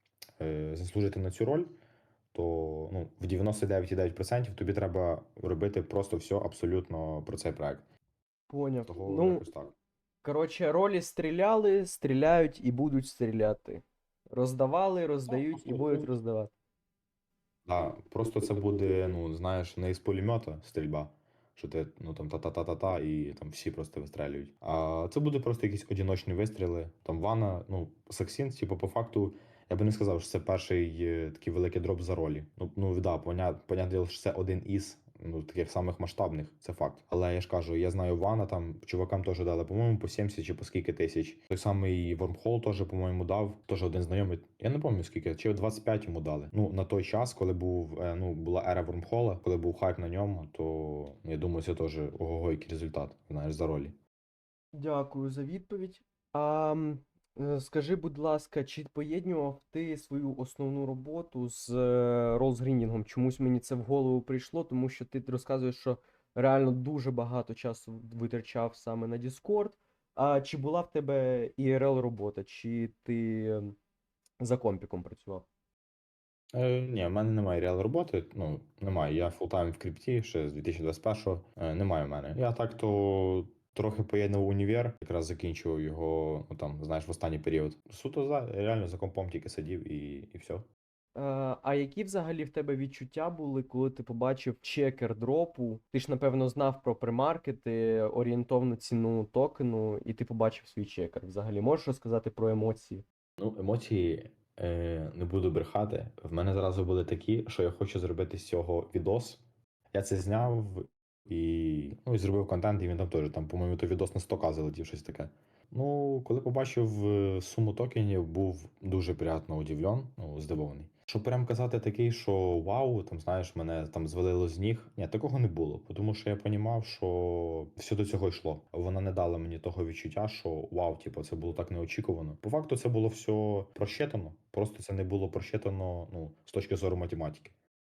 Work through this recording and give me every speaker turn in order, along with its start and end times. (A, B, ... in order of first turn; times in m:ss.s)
0:00.4-0:01.7 A
0:02.3-0:07.9 A
0:08.5-0:09.4 B
0:08.9-0:09.8 A
0:10.2-0:16.5 B
0:15.3-0:16.1 A
0:17.7-0:54.0 A
0:54.7-1:13.8 B
1:14.4-1:15.5 B
1:16.5-1:30.7 A
1:31.2-1:43.0 B
1:43.4-2:17.5 A